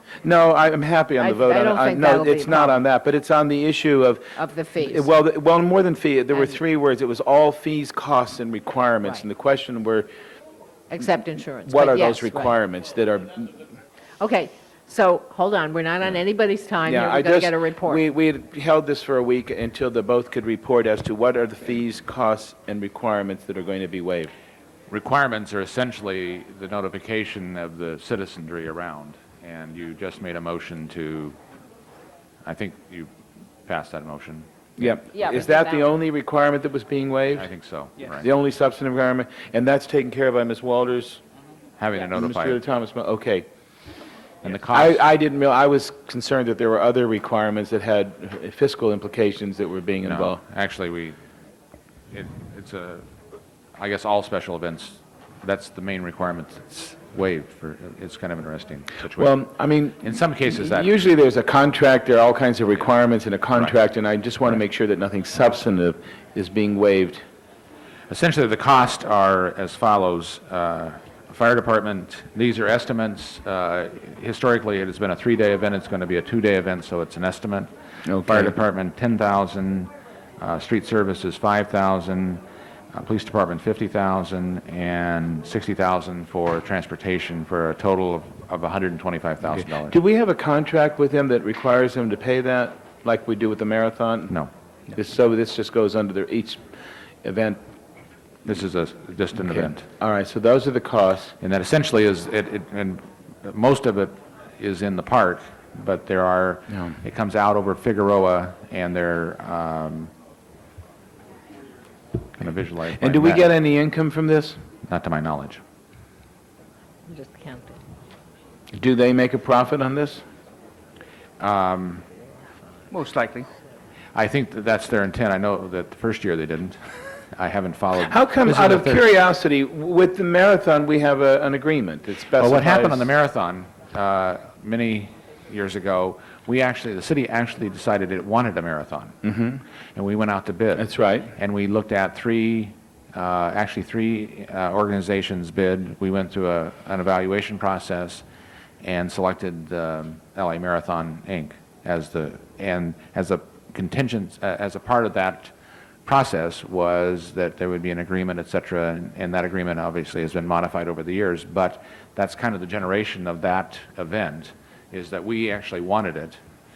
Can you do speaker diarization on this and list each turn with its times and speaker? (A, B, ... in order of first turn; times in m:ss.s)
0:00.2-0:10.1 A
0:01.2-0:02.8 B
0:04.4-0:05.1 B
0:10.9-0:12.5 B
0:11.6-0:13.6 A
0:14.2-0:18.0 B
0:16.8-0:24.3 A
0:24.9-0:31.4 C
0:32.4-0:33.1 C
0:33.6-0:34.9 C
0:34.8-0:37.5 A
0:35.1-0:35.8 B
0:37.4-0:38.3 C
0:38.1-0:41.2 A
0:41.8-0:42.6 C
0:42.1-0:43.5 A
0:44.4-0:45.0 C
0:44.7-0:50.4 A
0:50.0-0:51.2 C
0:52.1-0:53.0 C
0:53.8-0:59.3 C
0:59.2-1:07.2 A
1:00.0-1:00.9 C
1:08.1-1:17.7 C
1:18.1-1:18.5 A
1:18.2-1:22.4 C
1:22.9-1:29.9 C
1:29.5-1:34.4 A
1:34.9-1:36.6 A
1:37.2-1:37.6 A
1:38.4-1:39.9 C
1:39.4-1:41.3 A
1:41.4-1:50.1 C
1:46.7-1:47.0 A
1:52.4-1:53.5 C
1:53.0-1:54.7 A
1:54.8-1:55.6 C
1:57.1-1:57.8 B
1:58.8-2:00.2 A
2:01.4-2:02.0 C
2:02.9-2:03.5 A
2:04.1-2:09.1 C
2:08.0-2:13.1 A
2:12.4-2:19.2 C
2:19.2-2:19.6 A
2:19.9-2:28.2 C
2:20.8-2:21.4 A
2:28.8-2:35.5 C
2:36.0-2:46.4 C